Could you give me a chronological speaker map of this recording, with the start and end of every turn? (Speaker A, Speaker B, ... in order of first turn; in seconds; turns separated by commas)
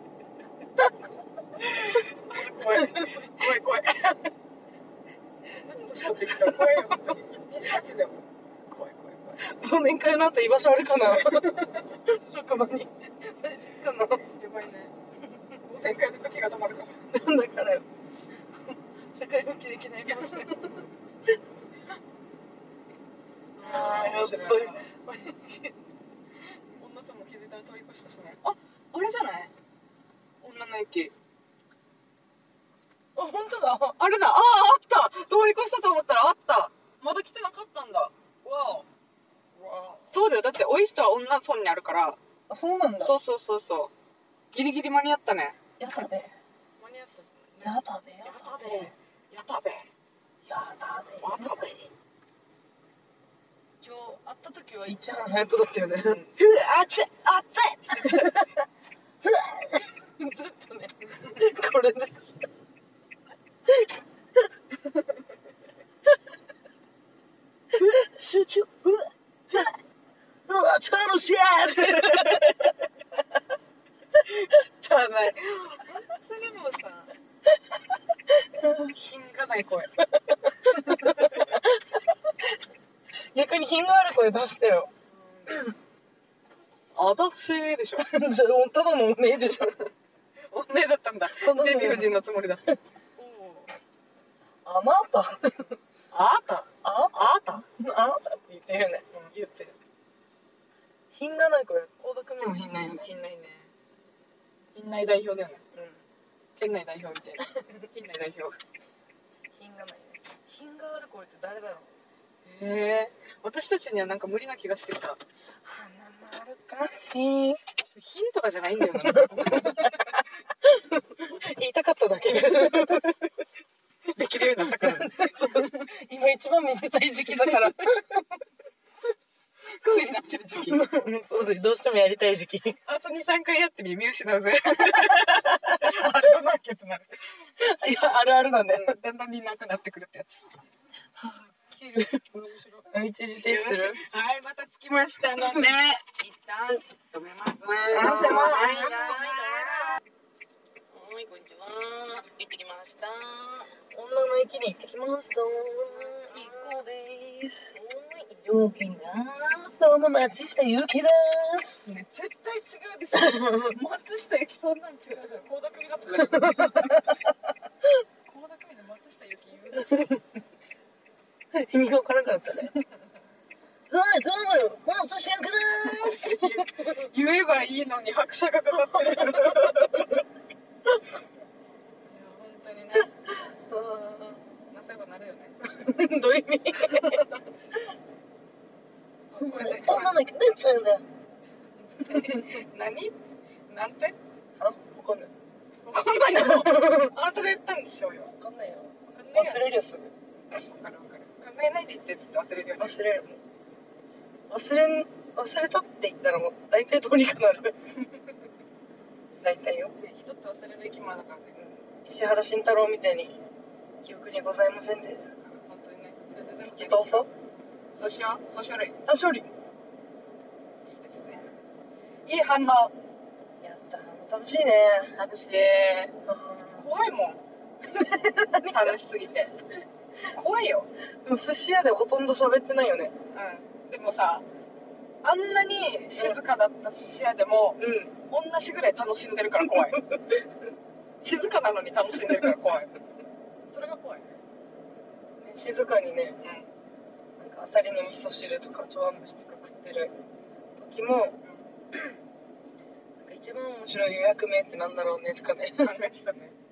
Speaker A: 1.6-4.3, Speaker B: 2.8-3.1, Speaker A: 5.6-9.5, Speaker B: 6.4-6.8, Speaker B: 9.4-14.2, Speaker A: 11.2-11.7, Speaker A: 14.3-14.9, Speaker A: 15.6-17.1, Speaker B: 17.1-17.9, Speaker B: 19.1-20.8, Speaker A: 23.6-24.9, Speaker B: 23.6-25.7, Speaker A: 26.8-29.5, Speaker A: 30.4-31.1, Speaker B: 33.1-34.0, Speaker A: 34.0-38.9, Speaker B: 39.6-40.1, Speaker A: 40.1-42.2, Speaker B: 42.5-43.1, Speaker A: 43.0-43.9, Speaker A: 44.5-46.0, Speaker B: 45.8-46.3, Speaker A: 46.8-49.9, Speaker B: 47.6-48.9, Speaker B: 50.5-51.7, Speaker A: 51.2-51.9, Speaker B: 53.8-57.0, Speaker A: 56.0-58.4, Speaker B: 57.9-58.5, Speaker B: 59.2-62.4, Speaker B: 67.7-69.8, Speaker B: 70.5-72.6, Speaker A: 71.8-72.5, Speaker A: 74.2-77.1, Speaker A: 78.7-79.9, Speaker B: 80.3-81.9, Speaker A: 81.0-81.4, Speaker B: 83.3-84.9, Speaker A: 85.1-85.6, Speaker A: 86.9-88.1, Speaker B: 88.0-89.8, Speaker A: 90.5-93.7, Speaker B: 91.3-92.2, Speaker B: 94.6-95.8, Speaker A: 96.1-97.6, Speaker B: 96.8-99.0, Speaker A: 99.1-99.8, Speaker B: 101.1-103.1, Speaker A: 103.0-103.7, Speaker A: 104.7-105.6, Speaker B: 105.7-106.0, Speaker A: 106.6-108.6, Speaker B: 109.5-111.9, Speaker A: 112.4-115.2, Speaker B: 115.6-117.6, Speaker A: 117.8-120.0, Speaker B: 119.0-120.1, Speaker B: 120.6-123.1, Speaker A: 122.3-123.1, Speaker A: 124.1-125.7, Speaker B: 124.8-128.2, Speaker A: 129.8-130.8, Speaker B: 130.6-132.8, Speaker A: 132.8-137.2, Speaker B: 137.6-138.9, Speaker A: 138.7-140.4, Speaker B: 141.2-142.2, Speaker A: 142.3-142.9, Speaker B: 142.9-144.0, Speaker A: 143.4-149.9, Speaker B: 147.9-149.9, Speaker A: 150.9-153.6, Speaker B: 153.9-157.8, Speaker A: 155.9-156.7, Speaker A: 157.8-158.8, Speaker B: 158.6-161.8, Speaker A: 161.8-167.1, Speaker B: 163.1-163.8, Speaker B: 166.3-167.2, Speaker A: 168.2-170.1, Speaker B: 169.9-170.2, Speaker B: 171.5-172.8, Speaker B: 173.9-177.1, Speaker A: 175.8-180.2, Speaker A: 182.1-183.1, Speaker B: 183.4-184.4, Speaker A: 184.7-185.6, Speaker B: 185.6-187.3, Speaker A: 189.3-190.2, Speaker B: 189.3-191.0, Speaker A: 191.9-193.1, Speaker B: 192.1-192.5, Speaker A: 193.7-194.2, Speaker B: 194.6-195.3, Speaker A: 195.8-198.3, Speaker B: 196.3-197.1, Speaker B: 198.4-200.1, Speaker A: 199.1-199.7, Speaker A: 200.7-202.9, Speaker B: 202.8-203.4, Speaker B: 204.5-207.9, Speaker B: 209.4-209.9, Speaker A: 210.0-211.5, Speaker B: 211.5-213.4, Speaker B: 214.0-215.3, Speaker A: 215.5-217.3, Speaker B: 216.6-217.3, Speaker A: 217.9-219.0, Speaker B: 219.1-219.5, Speaker A: 220.9-221.5, Speaker A: 222.2-222.9, Speaker B: 223.6-225.2, Speaker A: 225.2-226.2, Speaker B: 226.2-226.8, Speaker A: 226.8-227.4, Speaker B: 227.9-228.9, Speaker A: 228.4-229.5, Speaker A: 230.3-230.9, Speaker B: 231.2-233.1, Speaker A: 233.3-234.4, Speaker A: 235.2-240.1, Speaker B: 237.8-238.1, Speaker A: 241.2-243.0, Speaker A: 243.7-244.3, Speaker B: 245.4-246.4, Speaker A: 246.4-246.7, Speaker B: 247.4-250.1, Speaker B: 250.8-251.4, Speaker B: 253.2-255.9, Speaker A: 255.8-256.5